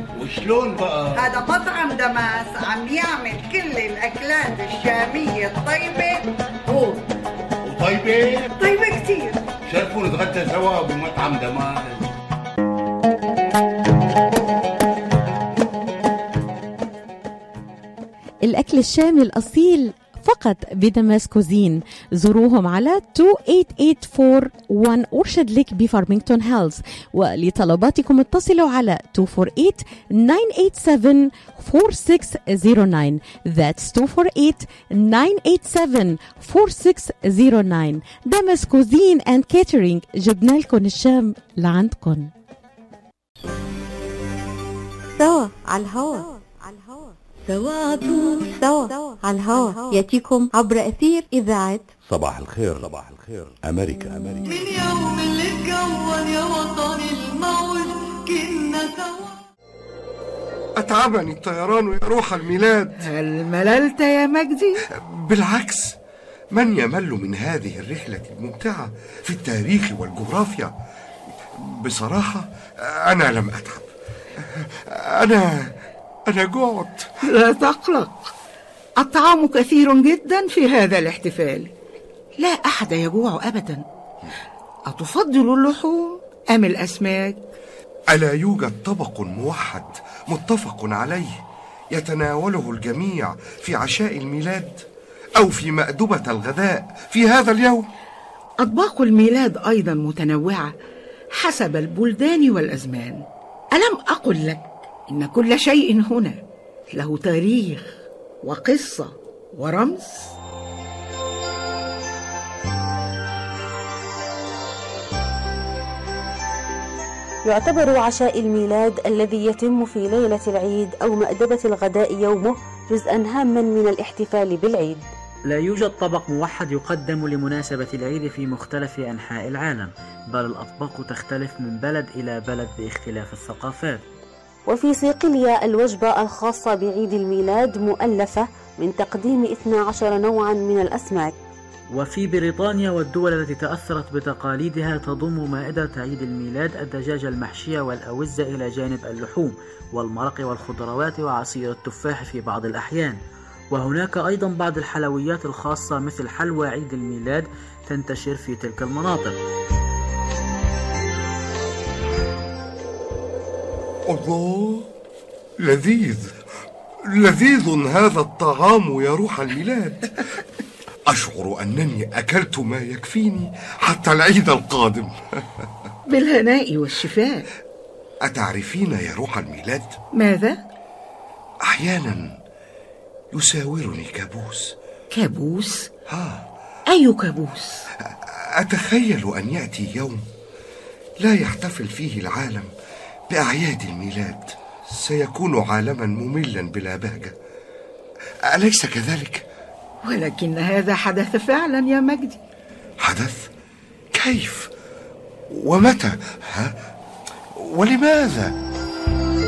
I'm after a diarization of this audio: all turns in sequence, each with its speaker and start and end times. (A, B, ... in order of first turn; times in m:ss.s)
0:00.2-0:01.1 A
0:01.1-0:07.0 B
0:07.7-0:08.4 A
0:08.6-0:09.4 B
0:09.7-0:12.0 A
0:18.4-0:42.3 C
0:45.2-0:47.1 D
0:47.5-0:48.5 E
0:48.6-0:51.9 D
0:52.1-0:54.4 F
0:54.4-0:59.4 E
1:00.8-1:03.0 G
1:03.0-1:04.8 H
1:05.1-1:06.0 G
1:06.5-1:10.7 G
1:11.6-1:13.9 G
1:14.4-1:15.7 G
1:16.3-1:17.1 G
1:17.2-1:18.3 H
1:19.0-1:21.7 H
1:22.4-1:23.8 H
1:24.9-1:27.4 H
1:28.1-1:31.4 G
1:31.9-1:34.8 G
1:35.4-1:37.9 G
1:38.6-1:40.7 H
1:41.4-1:46.4 H
1:46.9-1:50.3 H
1:57.4-2:05.0 I
2:05.5-2:14.0 J
2:14.7-2:21.3 I
2:21.9-2:33.2 J
2:33.7-2:39.3 J
2:44.1-2:44.8 G
2:45.6-2:46.3 G
2:47.1-2:50.1 G
2:51.1-2:55.1 G
2:56.1-2:57.4 H
2:58.2-3:00.0 G
3:00.2-3:00.6 H
3:01.6-3:02.4 G
3:03.3-3:04.7 G
3:05.1-3:05.9 H
3:06.1-3:06.4 G
3:06.9-3:07.8 H
3:08.3-3:10.2 G
3:11.2-3:12.7 G
3:13.3-3:17.3 G
3:18.4-3:19.4 G
3:20.0-3:22.4 H
3:23.0-3:23.5 G
3:24.1-3:24.7 G
3:25.5-3:26.7 G
3:27.5-3:28.5 G